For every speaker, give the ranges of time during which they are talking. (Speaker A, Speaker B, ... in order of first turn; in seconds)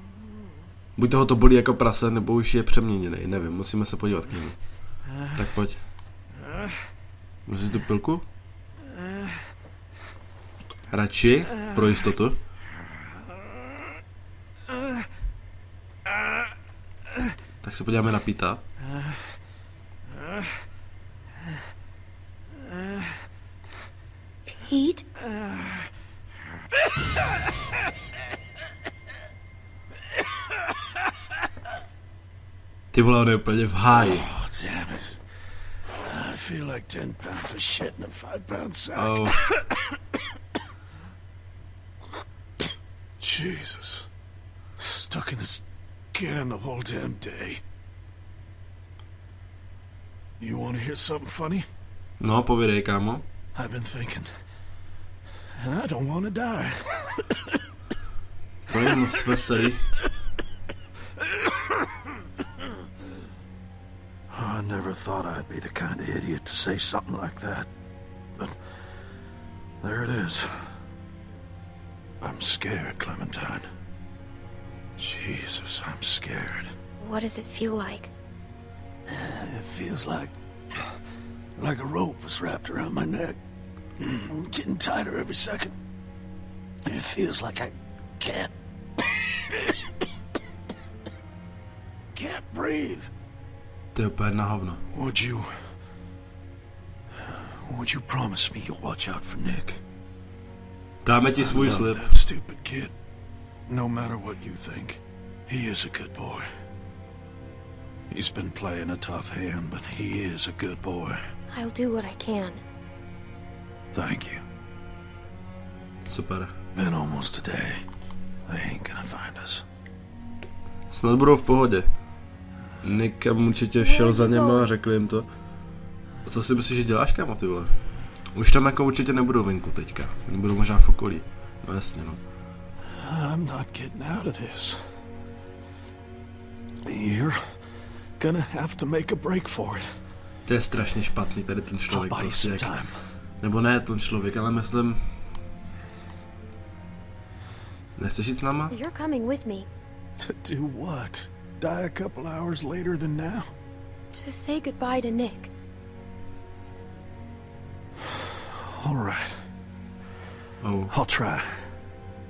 Speaker A: 1.0-4.6, 5.3-5.8, 7.5-8.2, 10.9-12.4, 17.6-18.6, 32.9-34.3, 38.9-39.4, 52.2-53.2, 58.7-59.8, 93.9-94.8, 101.0-102.1, 116.1-116.5, 120.9-121.8, 122.8-125.3, 126.2-127.7, 128.3-132.2, 140.4-142.7, 143.4-145.0, 148.0-148.7, 160.6-160.9
Speaker B: 24.6-25.0, 77.0-78.1, 111.5-112.6, 123.8-124.7, 148.7-149.7, 154.1-155.5
Speaker C: 34.0-35.2, 36.0-39.6, 43.2-44.1, 44.8-45.6, 46.1-47.6, 50.4-51.6, 53.5-54.3, 55.6-57.1, 64.3-67.7, 69.8-70.8, 72.2-73.7, 75.0-76.7, 79.1-80.9, 81.6-83.4, 84.0-85.7, 86.8-88.5, 92.1-93.1, 94.9-95.7, 97.7-99.8, 101.3-102.9, 103.7-106.5, 108.1-111.2, 113.9-114.4, 116.8-117.8, 118.5-119.6, 133.0-135.0, 136.8-139.9, 141.9-143.1, 150.2-153.5, 158.7-159.5, 160.9-161.8